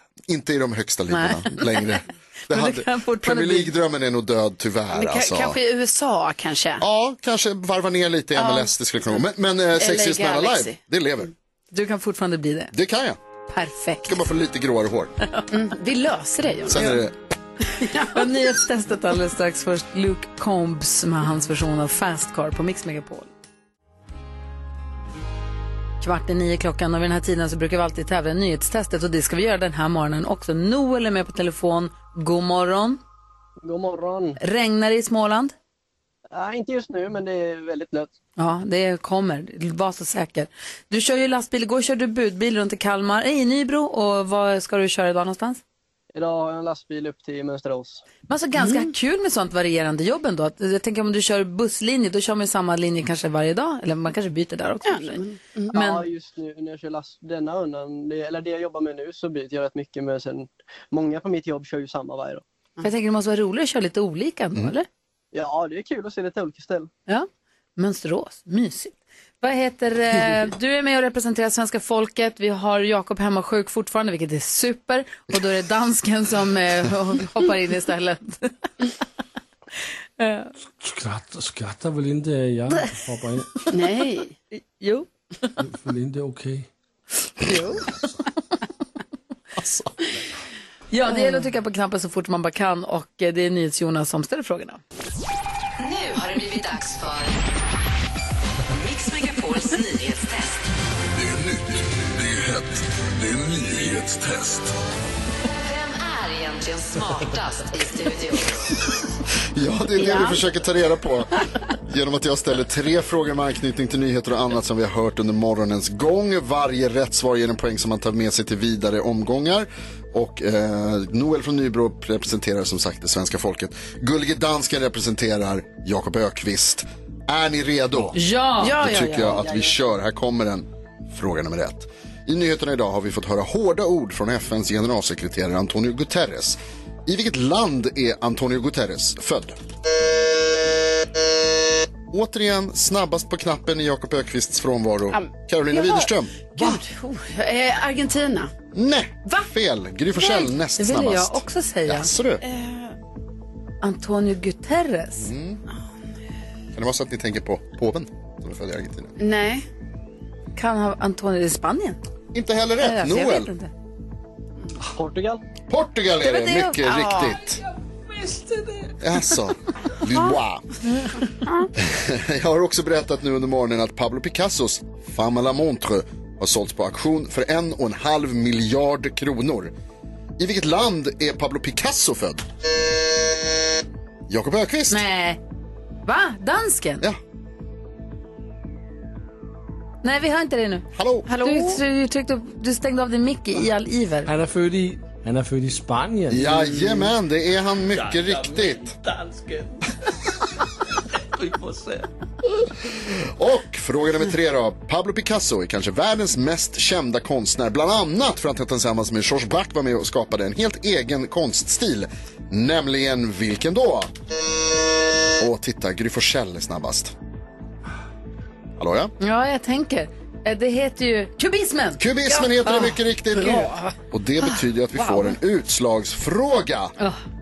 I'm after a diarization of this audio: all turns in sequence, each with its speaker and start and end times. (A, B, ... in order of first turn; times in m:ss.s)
0:00.3-0:05.6 A
0:01.1-0:02.0 B
0:02.5-0:03.7 B
0:04.9-0:06.8 C
0:06.8-0:11.3 A
0:08.4-0:09.2 C
0:09.8-0:10.8 C
0:11.7-0:12.7 B
0:12.7-0:13.2 A
0:13.5-0:14.2 B
0:14.0-0:15.1 A
0:15.5-0:17.0 C
0:16.7-0:17.1 A
0:17.8-0:23.3 B
0:17.9-0:18.1 C
0:26.0-0:33.0 B
0:33.6-0:34.4 D
0:34.4-0:35.5 B
0:36.3-0:38.1 D
0:38.4-0:45.6 B
0:46.1-0:48.0 D
0:48.3-0:55.2 B
0:48.6-0:48.8 C
0:54.8-0:55.7 C
0:55.7-0:56.0 B
0:55.7-1:02.4 D
1:02.8-1:04.8 B
1:05.3-1:06.9 D
1:07.1-1:18.5 B
1:20.2-1:20.5 B
1:20.8-1:23.6 E
1:23.7-1:24.3 C
1:24.5-1:25.6 B
1:25.6-1:26.7 E
1:27.4-1:27.8 B
1:29.6-1:29.9 A
1:30.9-1:34.8 B
1:35.8-1:37.4 F
1:38.7-1:40.6 F
1:41.1-1:44.7 G
1:45.5-1:48.7 F
1:49.5-2:08.2 A
1:50.0-1:50.4 C
2:08.1-2:08.8 B
2:08.6-2:09.4 C
2:08.7-2:19.6 A
2:09.0-2:09.8 D
2:22.1-2:26.3 A
2:25.1-2:28.5 C
2:28.7-2:32.4 A
2:30.2-2:32.1 B
2:32.4-2:32.9 C
2:33.8-2:35.3 B
2:35.2-2:35.6 A
2:36.7-2:39.2 A
2:39.2-2:39.6 C
2:40.6-2:42.0 B
2:42.3-2:43.5 A
2:42.8-2:43.7 B
2:44.9-2:45.4 D
2:45.7-2:47.6 A
2:46.2-2:46.8 B
2:46.8-2:47.4 C
2:48.1-2:49.0 B
2:49.0-2:50.8 A
2:51.8-2:59.7 A
3:00.4-3:02.4 A
3:04.3-3:05.0 A
3:04.9-3:05.4 B
3:06.0-3:07.0 B
3:10.0-3:14.3 B
3:10.9-3:11.3 A
3:11.4-3:11.7 C
3:14.2-3:16.8 E
3:16.3-3:19.0 A
3:17.9-3:19.8 E
3:21.1-3:22.1 E
3:23.2-3:34.1 A
3:35.4-3:37.1 A
3:38.8-3:39.1 A
3:39.2-3:42.0 B
3:42.0-3:46.9 A
3:42.2-3:45.4 C